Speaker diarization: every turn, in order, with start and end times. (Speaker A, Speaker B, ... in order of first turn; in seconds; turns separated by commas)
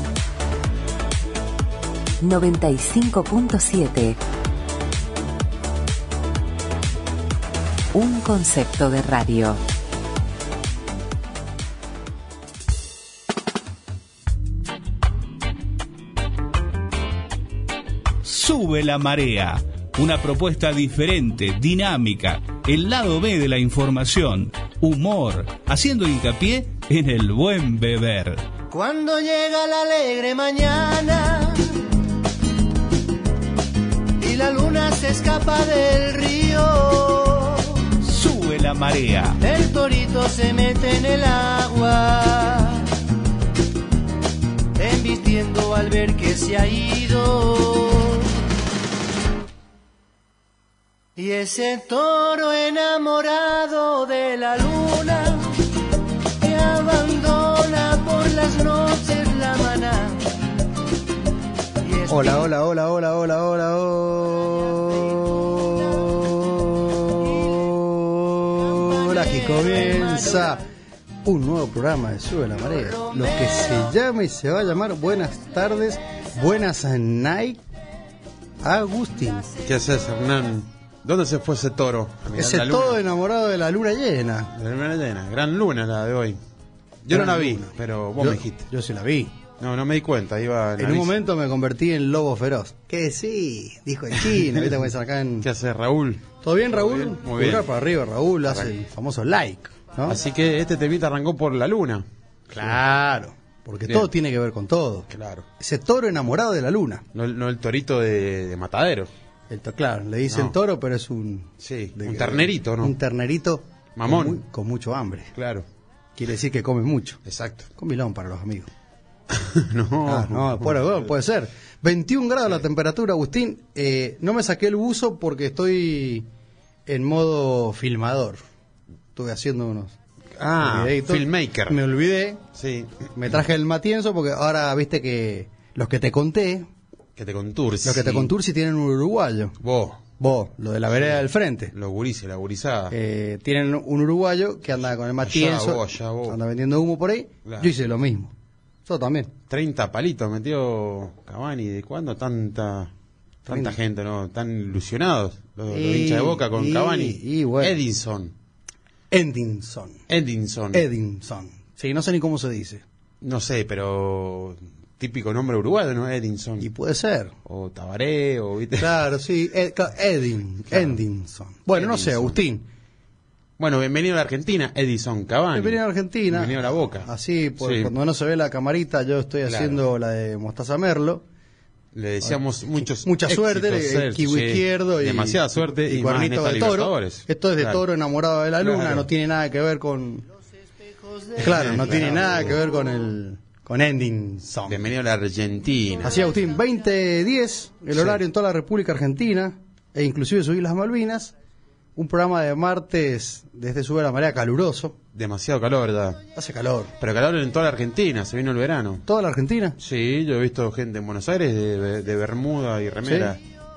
Speaker A: 2.2-4.2, Speaker A: 7.9-9.6, Speaker B: 18.2-28.4, Speaker C: 28.7-31.7, Speaker C: 34.2-37.9, Speaker B: 38.0-39.4, Speaker C: 39.4-42.9, Speaker C: 44.8-48.3, Speaker C: 51.2-55.5, Speaker C: 56.4-60.2, Speaker C: 61.8-62.5, Speaker D: 62.1-70.6, Speaker C: 68.7-70.6, Speaker D: 71.2-77.6, Speaker C: 72.8-73.9, Speaker D: 78.6-79.5, Speaker E: 79.6-83.0, Speaker D: 82.3-84.5, Speaker E: 84.5-86.4, Speaker E: 87.0-88.7, Speaker D: 87.1-89.3, Speaker E: 89.6-91.2, Speaker D: 90.8-95.5, Speaker E: 94.2-94.6, Speaker E: 95.4-97.7, Speaker D: 96.4-100.2, Speaker E: 98.4-98.8, Speaker E: 100.0-102.8, Speaker D: 102.5-105.1, Speaker E: 105.1-105.5, Speaker D: 105.6-107.0, Speaker E: 107.1-109.1, Speaker D: 109.5-115.3, Speaker E: 110.3-110.5, Speaker E: 111.6-113.0, Speaker E: 114.0-114.4, Speaker E: 115.3-115.7, Speaker D: 116.2-117.2, Speaker E: 117.2-117.7, Speaker D: 117.8-118.7, Speaker E: 119.3-121.0, Speaker D: 120.0-126.2, Speaker D: 126.9-128.4, Speaker D: 129.1-129.9, Speaker E: 130.3-131.8, Speaker D: 130.6-132.4, Speaker E: 132.5-133.1, Speaker D: 133.1-136.7, Speaker E: 137.2-138.3, Speaker D: 137.8-139.6, Speaker E: 139.6-140.0, Speaker D: 140.2-141.7, Speaker E: 140.9-142.9, Speaker D: 142.9-148.3, Speaker E: 145.2-146.4, Speaker E: 147.4-147.7, Speaker D: 148.8-149.3, Speaker E: 149.5-152.9, Speaker E: 153.4-158.3, Speaker D: 153.5-153.8, Speaker D: 155.7-157.8, Speaker D: 159.1-160.0, Speaker E: 160.1-160.8, Speaker D: 160.7-162.8, Speaker E: 163.2-166.7, Speaker D: 166.6-167.3, Speaker E: 167.4-169.0, Speaker D: 168.8-172.7, Speaker E: 170.7-171.0, Speaker E: 171.7-172.4, Speaker E: 173.6-177.9, Speaker D: 175.5-181.2, Speaker E: 179.4-179.8, Speaker E: 181.9-187.8, Speaker D: 182.2-190.2, Speaker E: 188.6-189.1, Speaker E: 191.4-192.6, Speaker D: 191.4-194.8, Speaker E: 194.7-196.3, Speaker D: 196.0-201.3, Speaker E: 197.9-198.2, Speaker D: 201.9-204.9, Speaker E: 205.1-206.2, Speaker D: 206.3-206.9, Speaker E: 207.0-209.0, Speaker D: 209.1-209.8, Speaker E: 209.8-213.4, Speaker D: 213.0-213.3